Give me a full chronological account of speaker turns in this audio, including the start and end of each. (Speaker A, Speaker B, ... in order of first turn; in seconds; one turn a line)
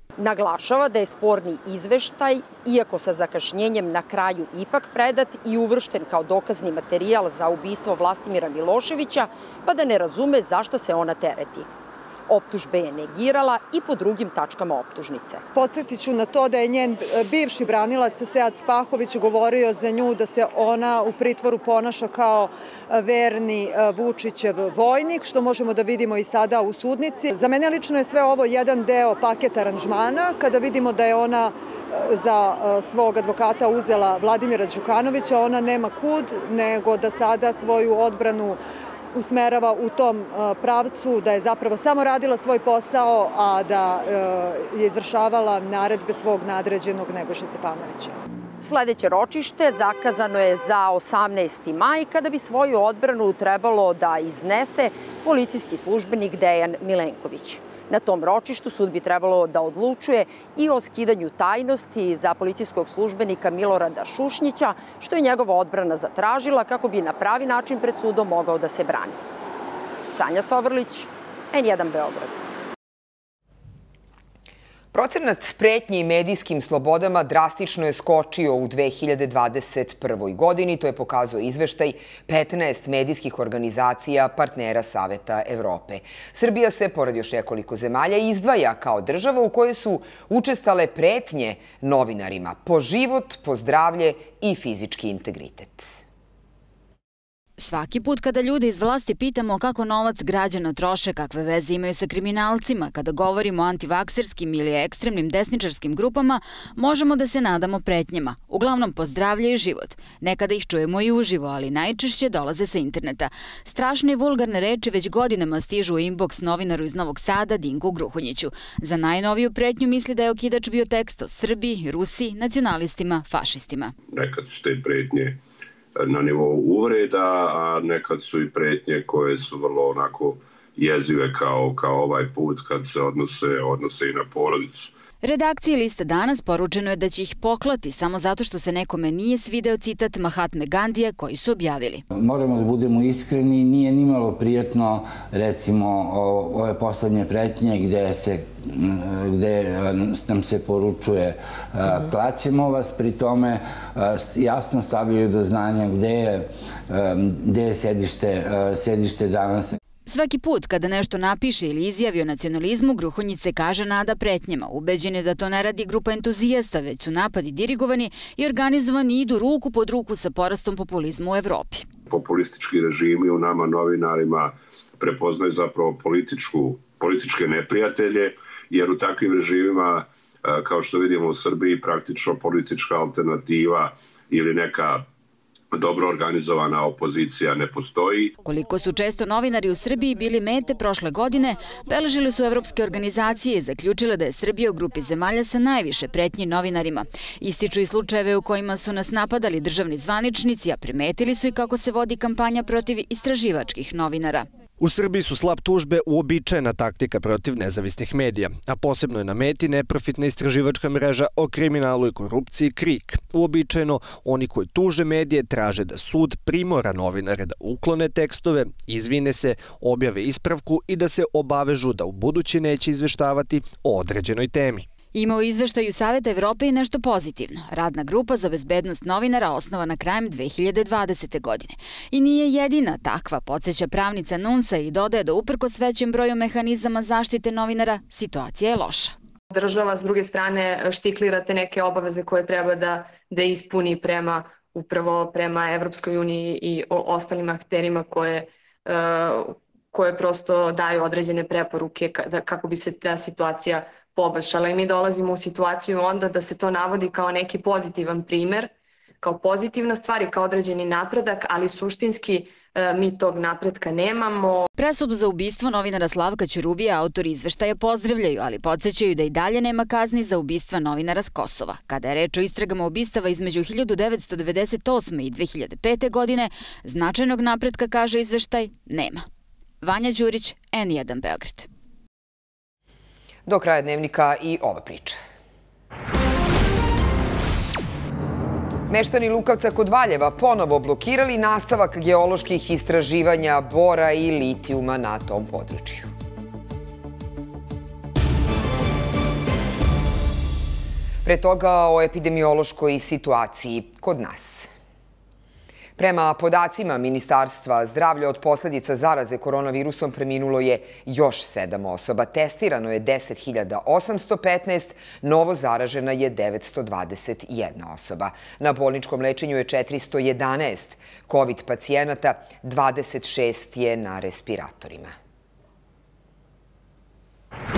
Speaker A: 0.2-11.7
Speaker A: 12.3-15.4
Speaker B: 15.5-38.6
Speaker B: 39.1-48.1
Speaker A: 48.6-69.2
Speaker A: 70.1-72.4
Speaker C: 74.9-95.9
Speaker D: 97.6-123.9
Speaker E: 124.1-125.4
Speaker E: 126.0-134.9
Speaker D: 135.2-142.0
Speaker F: 142.1-159.8
Speaker D: 160.1-171.8
Speaker E: 172.1-185.0
Speaker E: 185.7-188.3
Speaker D: 188.4-204.5
Speaker G: 204.8-224.8
Speaker D: 225.1-239.1
Speaker H: 239.5-264.6
Speaker D: 264.8-279.2
Speaker D: 279.8-281.7
Speaker C: 283.4-285.2
Speaker C: 288.9-296.1
Speaker C: 301.2-304.7
Speaker C: 306.0-325.1